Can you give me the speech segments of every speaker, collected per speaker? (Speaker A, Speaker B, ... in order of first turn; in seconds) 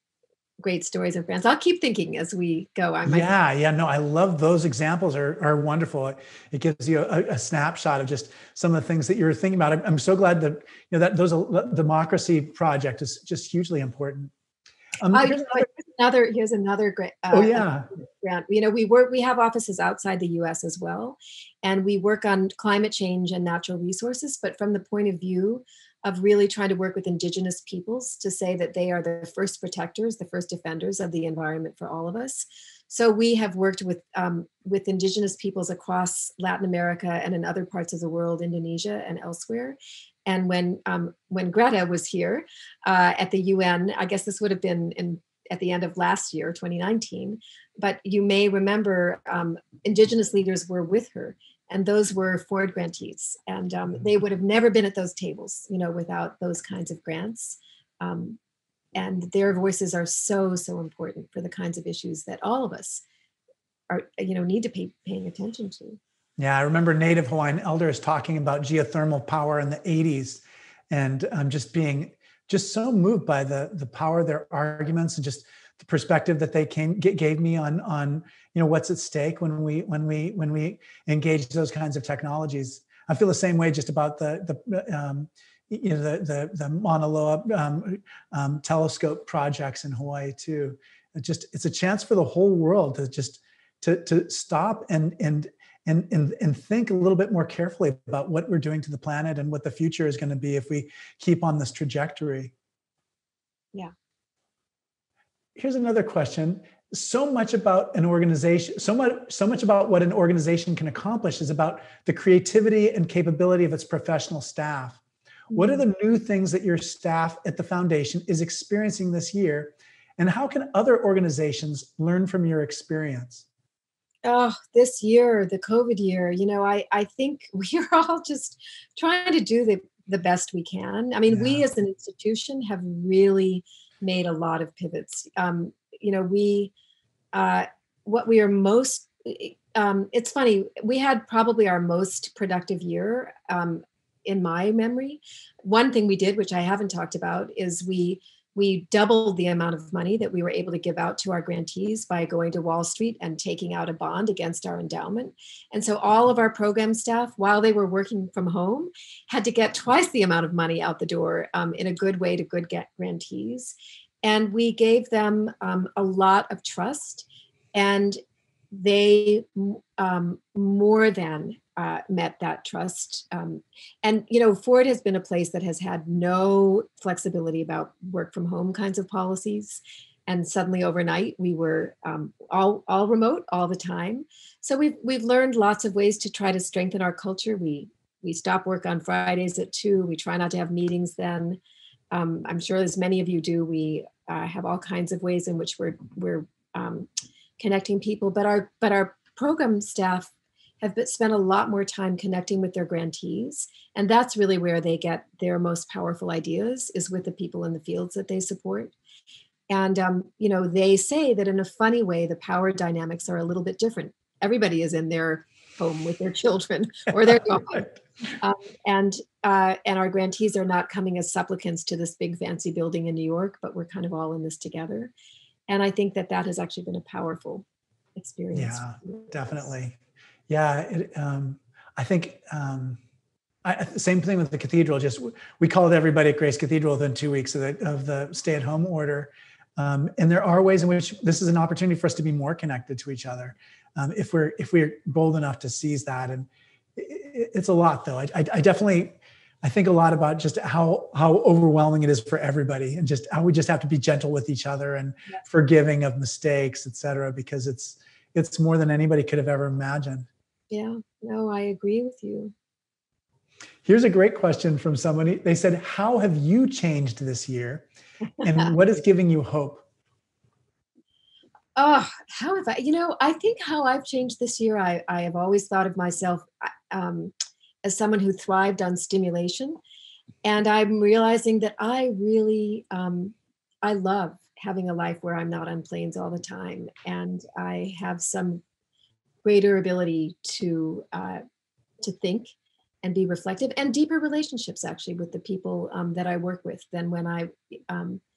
Speaker A: 0.6-3.3, 15.1-58.4, 58.9-63.0, 63.9-66.0, 115.5-115.8, 124.2-136.7, 137.3-168.2, 168.7-191.6, 192.1-208.9, 209.7-225.1, 225.7-227.6, 228.2-229.4, 260.7-262.5, 268.4-268.7, 271.8-279.8, 280.4-288.6, 289.4-291.4, 292.0-298.2
Speaker B: 3.0-14.3, 15.0-15.7, 17.3-17.9, 66.4-102.5, 105.5-115.0, 115.5-123.4, 131.3-131.6, 228.5-230.0, 230.5-233.0, 233.6-260.3, 263.9-267.9, 268.4-269.8